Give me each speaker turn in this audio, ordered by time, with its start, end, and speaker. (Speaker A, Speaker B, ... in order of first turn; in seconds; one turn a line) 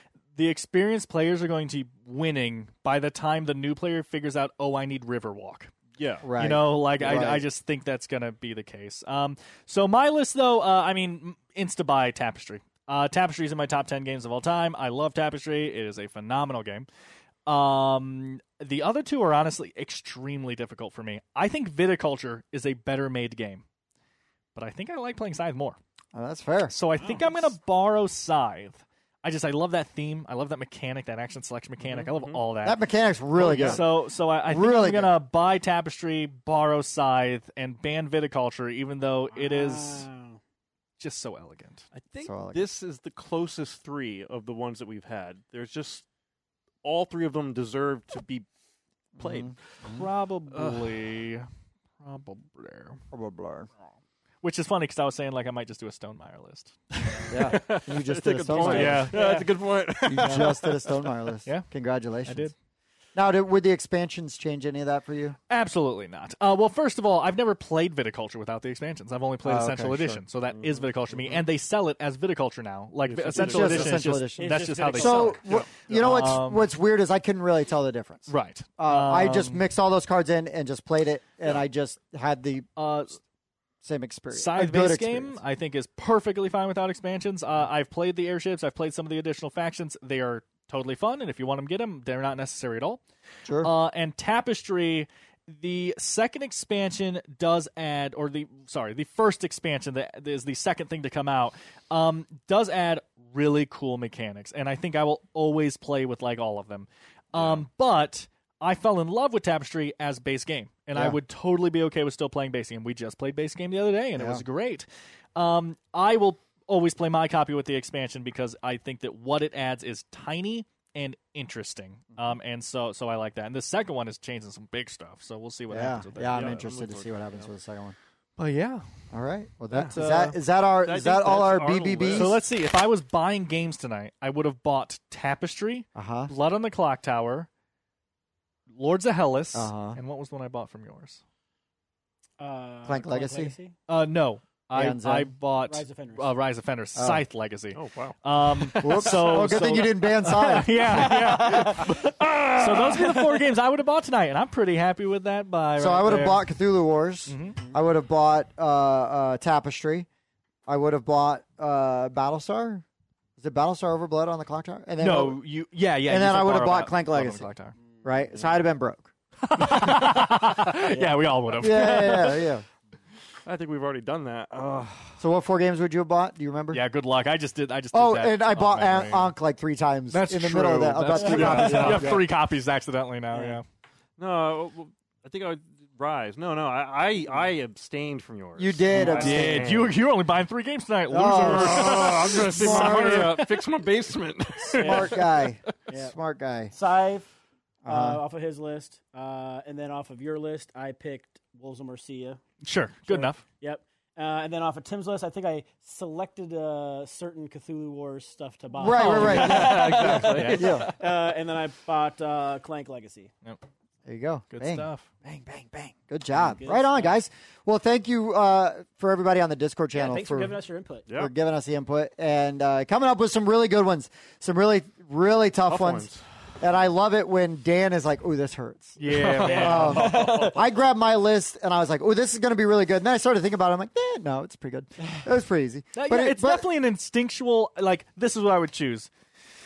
Speaker A: 0.3-5.7
Speaker B: 6.0-6.3
Speaker C: 6.2-7.4
Speaker A: 6.4-16.9
Speaker A: 17.5-23.6
Speaker A: 24.6-25.8
Speaker C: 26.1-26.7
Speaker A: 26.7-32.8
Speaker D: 27.0-27.3
Speaker B: 31.9-32.4
Speaker C: 32.6-33.9
Speaker B: 33.4-33.8
Speaker A: 33.6-40.1
Speaker C: 34.5-35.1
Speaker D: 39.3-40.4
Speaker A: 41.0-41.9
Speaker B: 42.0-46.1
Speaker C: 42.2-42.6
Speaker B: 46.8-48.5
Speaker C: 49.2-50.1
Speaker B: 49.2-49.6
Speaker A: 49.9-51.5
Speaker B: 50.5-51.0
Speaker A: 52.0-53.0
Speaker C: 53.1-53.7
Speaker A: 54.4-57.5
Speaker C: 57.3-59.1
Speaker B: 57.5-61.1
Speaker A: 58.6-59.2
Speaker D: 58.8-59.5
Speaker C: 60.1-62.5
Speaker A: 62.3-62.5
Speaker C: 63.1-65.4
Speaker A: 65.5-76.6
Speaker C: 69.5-70.2
Speaker B: 70.5-71.4
Speaker B: 73.1-74.0
Speaker C: 73.4-82.7
Speaker D: 74.4-75.4
Speaker B: 75.5-75.8
Speaker A: 78.3-79.6
Speaker A: 82.8-83.2
Speaker C: 83.8-85.4
Speaker A: 84.3-93.0
Speaker A: 93.6-126.6
Speaker B: 107.3-107.6
Speaker C: 114.2-114.4
Speaker C: 125.7-128.0
Speaker B: 126.3-127.5
Speaker A: 128.4-128.9
Speaker C: 129.1-132.4
Speaker B: 129.7-130.0
Speaker A: 129.9-130.4
Speaker B: 130.8-132.4
Speaker A: 132.1-137.5
Speaker C: 135.9-136.3
Speaker A: 138.7-141.2
Speaker C: 139.5-140.0
Speaker D: 142.4-143.8
Speaker C: 142.9-143.5
Speaker A: 143.9-156.5
Speaker C: 144.7-145.3
Speaker D: 145.7-146.3
Speaker C: 147.0-147.2
Speaker B: 147.7-149.6
Speaker C: 148.8-151.1
Speaker D: 151.0-151.9
Speaker B: 151.3-153.5
Speaker C: 155.8-160.1
Speaker A: 157.3-157.6
Speaker C: 160.7-162.8
Speaker C: 163.4-165.4
Speaker A: 165.0-167.7
Speaker C: 166.1-167.5
Speaker C: 168.0-169.1
Speaker A: 169.4-172.5
Speaker D: 170.9-171.2
Speaker C: 171.6-172.6
Speaker B: 173.4-175.2
Speaker C: 175.2-176.8
Speaker A: 176.7-179.3
Speaker C: 177.9-182.2
Speaker A: 180.1-183.7
Speaker B: 181.3-182.2
Speaker D: 183.3-183.6
Speaker B: 184.2-190.0
Speaker C: 188.6-189.8
Speaker A: 188.9-193.5
Speaker C: 191.1-193.4
Speaker B: 191.5-195.5
Speaker C: 194.7-196.7
Speaker D: 194.8-195.2
Speaker D: 195.9-196.2
Speaker D: 196.7-197.3
Speaker C: 197.8-198.2
Speaker D: 197.8-202.4
Speaker A: 202.6-203.4
Speaker D: 203.1-213.3
Speaker C: 208.8-210.9
Speaker A: 208.9-210.9
Speaker B: 209.0-210.9
Speaker C: 214.1-220.6
Speaker A: 214.5-215.1
Speaker D: 216.4-217.2
Speaker D: 219.9-221.1
Speaker C: 221.2-226.1
Speaker B: 225.7-226.2
Speaker C: 226.6-236.7
Speaker A: 229.0-230.2
Speaker B: 229.1-230.6
Speaker D: 229.4-230.7
Speaker A: 235.9-239.1